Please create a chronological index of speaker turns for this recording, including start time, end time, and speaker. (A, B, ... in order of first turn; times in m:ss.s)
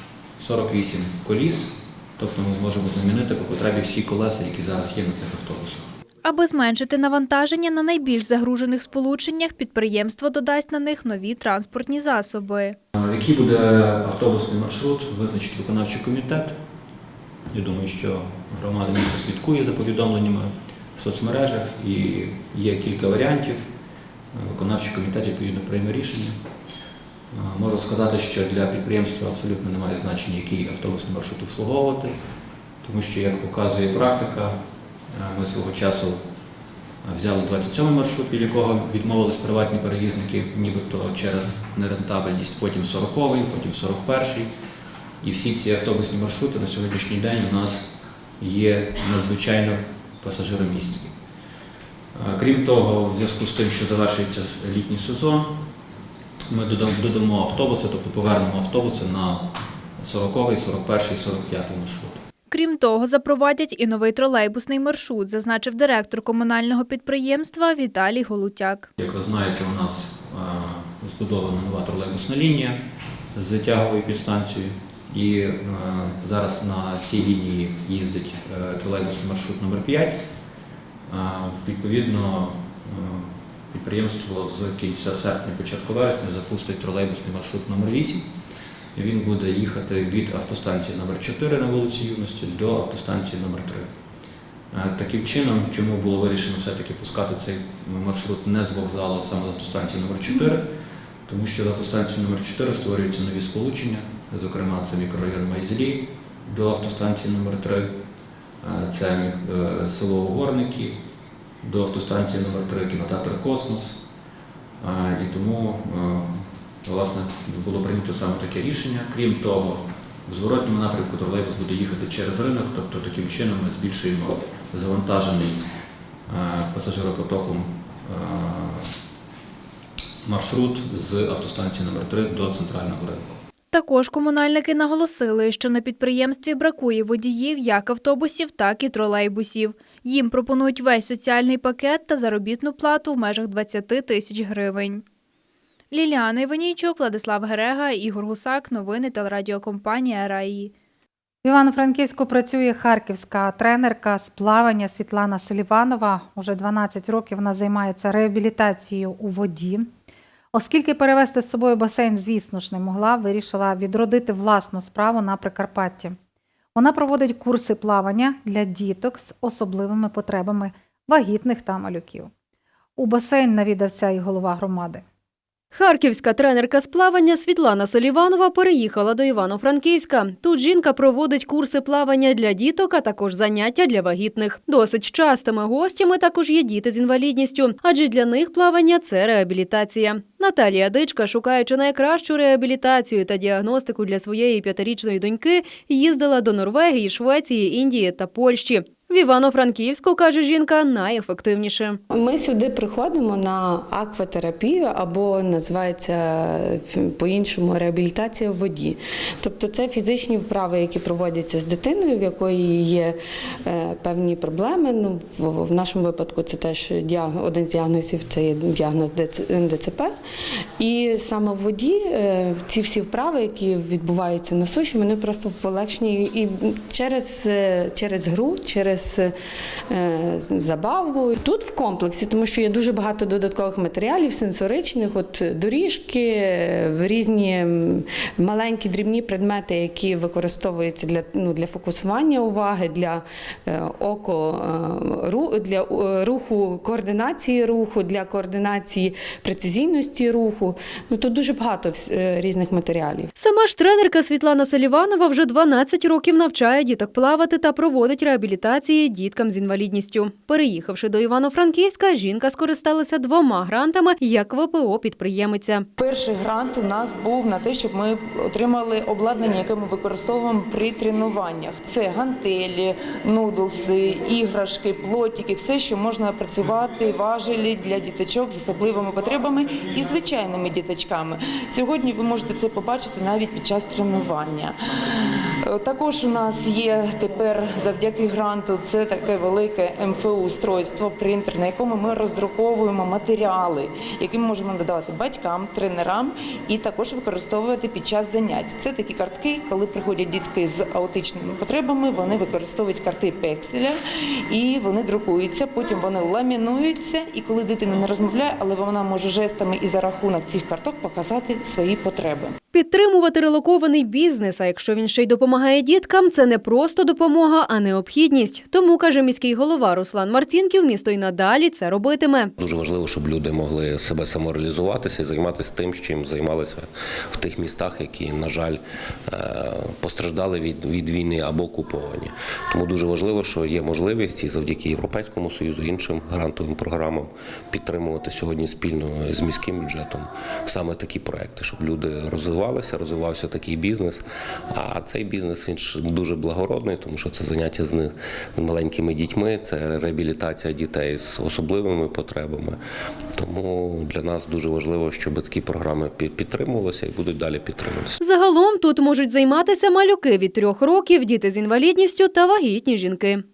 0:00.4-0:05.9 A
0:06.2-0:12.8 B
0:13.0-0:16.6 A
0:17.5-0:23.7 A
0:24.3-0:26.4 A
0:27.3-0:32.3 A
0:32.8-0:34.6 A
0:35.1-0:44.5 A
0:45.2-0:51.1 A
0:52.1-0:55.7 A
0:56.5-1:02.2 A
1:02.5-1:08.9 B
1:09.0-1:12.8 A
1:13.3-1:20.3 A
1:21.1-1:28.3 A
1:29.0-1:34.0 A
1:34.7-1:40.7 A
1:41.3-1:47.9 A
1:48.6-1:51.0 A
1:51.6-1:54.1 A
1:54.8-2:05.6 A
2:06.3-2:08.9 A
2:10.3-2:13.4 A
2:13.7-2:25.0 B
2:25.9-2:30.7 B
2:31.4-2:39.9 C
2:40.5-2:46.2 C
2:46.8-2:52.3 C
2:53.0-2:55.0 C
2:55.7-3:22.0 D
3:22.1-3:40.2 E
3:40.8-3:49.4 E
3:49.9-4:13.3 E
4:13.4-4:25.9 D
4:26.0-4:44.8 F
4:45.6-5:04.0 F
5:04.5-5:12.6 F
5:12.7-5:22.5 D
5:22.6-5:52.8 G
5:53.4-5:58.2 G
5:58.2-6:03.4 D